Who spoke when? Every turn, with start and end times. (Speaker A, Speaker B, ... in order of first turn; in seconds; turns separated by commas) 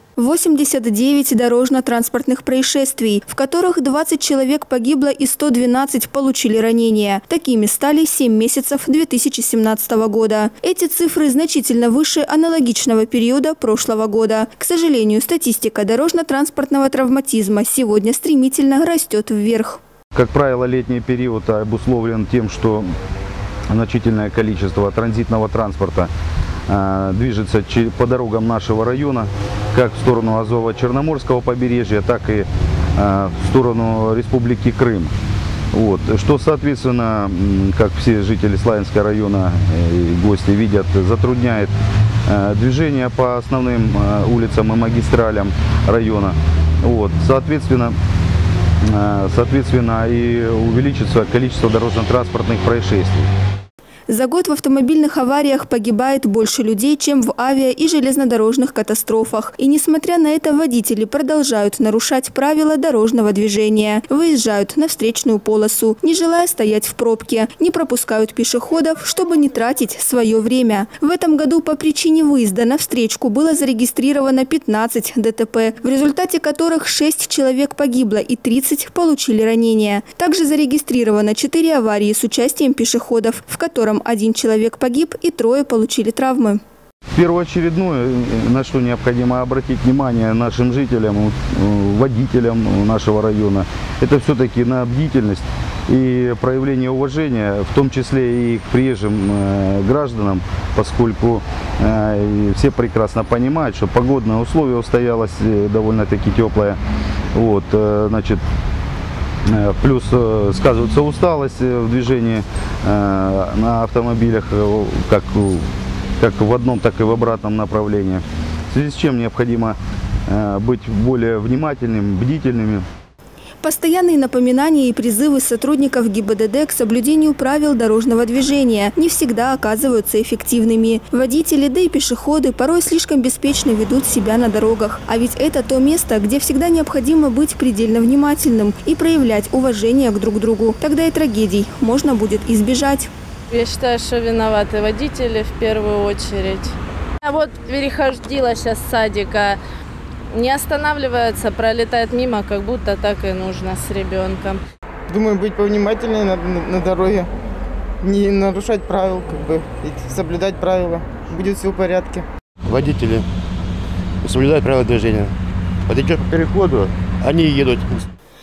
Speaker A: 0.2-19.8, Speaker B: 20.1-22.9, Speaker B: 23.7-26.1, Speaker B: 26.7-35.1, Speaker B: 35.7-41.7, Speaker B: 42.3-47.9, Speaker B: 48.9-53.3, Speaker A: 54.1-86.6, Speaker B: 87.1-106.8, Speaker B: 107.3-108.4, Speaker B: 109.5-115.6, Speaker B: 116.2-122.8, Speaker A: 123.6-143.1, Speaker C: 143.5-146.7, Speaker C: 147.2-149.6, Speaker C: 150.3-154.6, Speaker D: 155.1-157.3, Speaker D: 158.0-162.2, Speaker E: 162.6-163.3, Speaker E: 164.2-165.3, Speaker E: 165.9-168.1